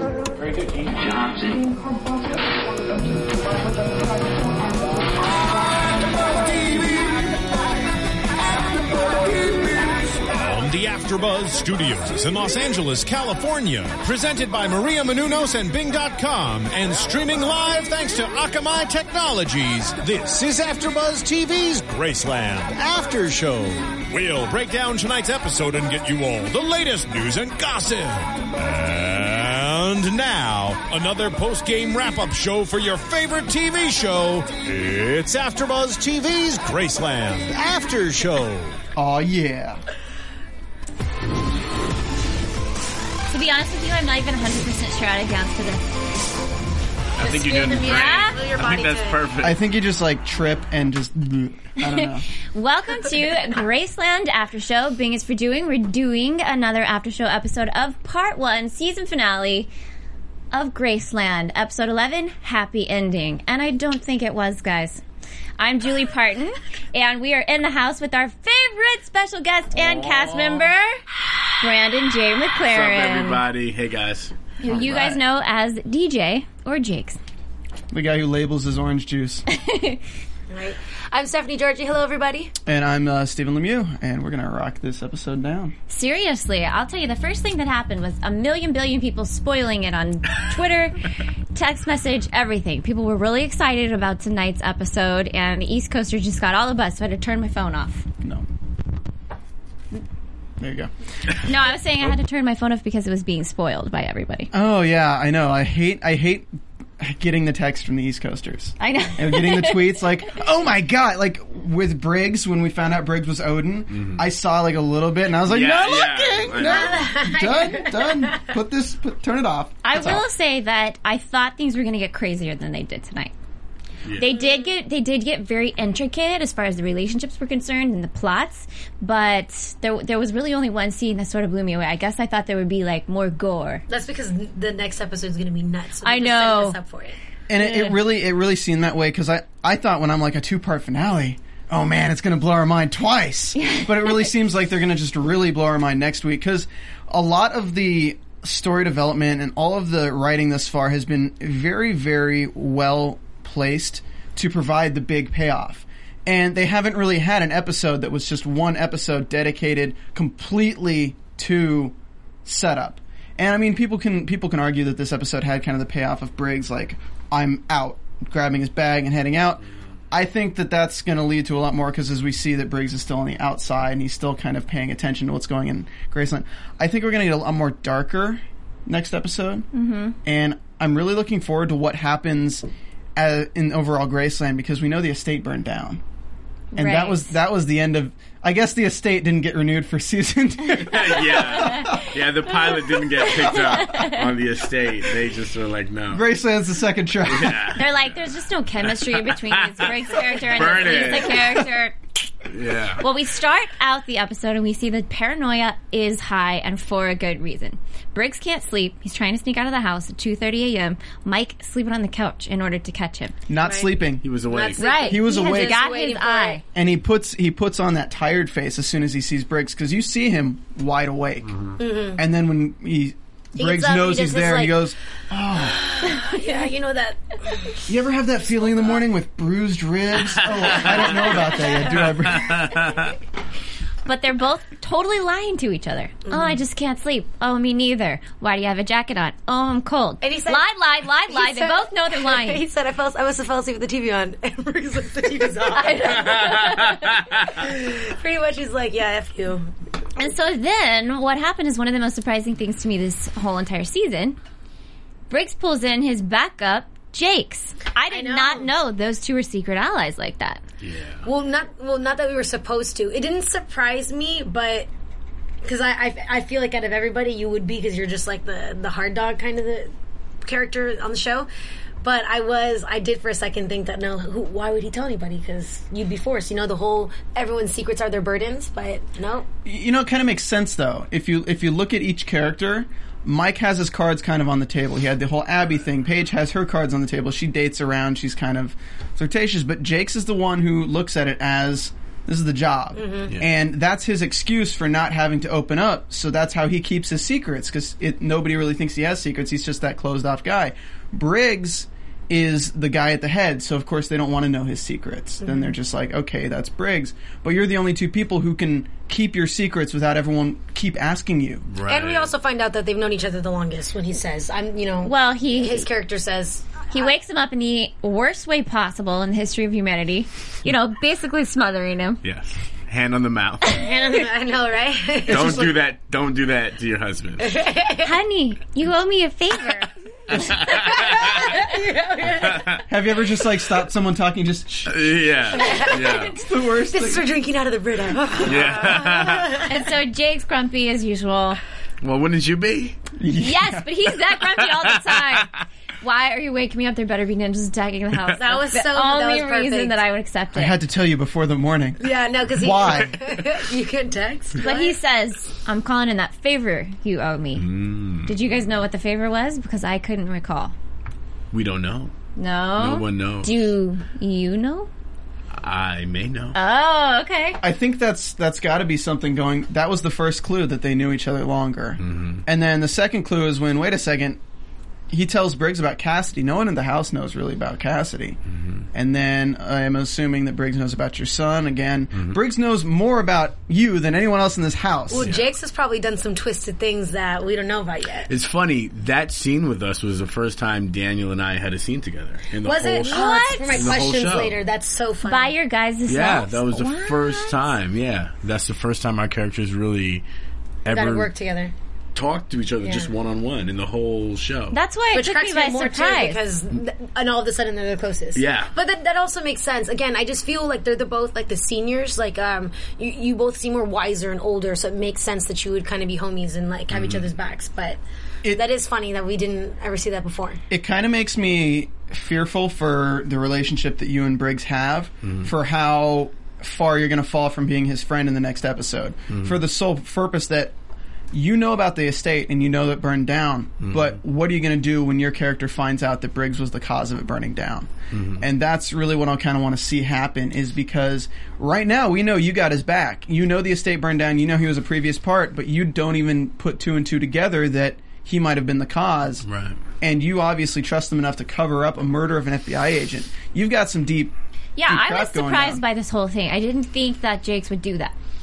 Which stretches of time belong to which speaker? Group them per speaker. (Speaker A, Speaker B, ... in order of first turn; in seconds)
Speaker A: 6.5-7.1, 10.2-38.8
Speaker B: 39.0-39.8, 49.4-52.2, 74.7-75.2, 77.9-79.4, 82.7-85.7, 100.6-100.9, 104.5-106.5, 107.0-120.2, 137.5-179.7, 180.2-186.0, 186.7-192.1, 196.1-197.8, 213.5-214.2, 215.0-215.8, 216.7-221.5, 222.1-225.9, 227.9-232.7, 279.6-311.7, 325.3-325.8, 332.9-334.9, 335.9-337.3, 343.2-343.9, 350.5-352.0, 352.5-353.1, 367.6-374.4, 375.1-378.4, 378.9-385.3, 420.7-430.7, 431.3-449.5, 450.0-454.3, 454.9-455.8
Speaker C: 43.3-45.9, 47.8-48.4, 51.8-59.7, 60.5-65.0, 65.6-71.0, 71.6-73.4, 74.6-77.2, 79.5-80.0, 85.9-98.0, 101.4-104.5, 108.8-110.0, 119.8-123.3, 124.2-133.8, 136.0-136.8, 137.6-137.9, 143.6-144.3, 179.7-180.2, 186.7-187.3, 191.5-191.9, 193.4-194.3, 197.7-202.0, 203.0-213.3, 214.8-216.6, 234.1-242.6, 245.7-247.2, 250.2-254.4, 255.3-260.6, 315.0-315.9, 316.9-322.2, 328.0-329.9, 338.9-341.6, 343.3-350.7, 354.6-360.7, 362.4-364.9, 366.5-367.6, 393.1-394.0, 395.2-397.6, 404.7-406.4, 454.8-458.1
Speaker D: 47.2-49.6, 69.9-70.6, 72.6-74.3, 113.9-114.2, 115.4-117.1, 124.0-124.3, 190.7-196.3, 197.3-197.8, 198.8-201.6, 202.5-203.0, 214.2-214.9, 221.5-221.8, 230.8-233.1, 260.8-261.2, 311.7-312.3, 322.2-323.8, 325.3-327.5, 330.3-331.6, 332.3-332.8, 334.9-336.4, 338.4-339.6, 342.0-343.0, 357.6-358.3, 361.5-362.1, 362.8-363.7, 365.6-366.5, 372.0-372.4, 378.6-378.8, 388.3-394.6, 396.1-400.2, 400.8-401.3, 402.1-404.8, 408.3-408.7, 416.9-417.3, 425.2-425.5, 429.3-429.6, 433.8-434.1, 438.1-438.4, 449.4-449.8
Speaker E: 47.2-49.3, 80.5-82.5, 116.6-118.1, 133.9-137.2, 213.6-213.9, 214.5-216.6, 221.8-222.2, 223.6-224.8, 225.9-227.8, 240.2-240.7, 241.3-249.7, 258.1-258.7, 261.2-264.9, 265.6-269.9, 270.4-271.5, 272.0-279.5, 292.9-293.3, 311.9-317.1, 323.7-325.7, 327.4-328.1, 330.7-332.8, 335.6-336.4, 336.9-339.9, 348.4-350.0, 352.0-354.9, 385.1-388.3, 392.6-395.5, 400.9-401.7, 402.8-403.1, 405.1-418.0, 418.5-420.6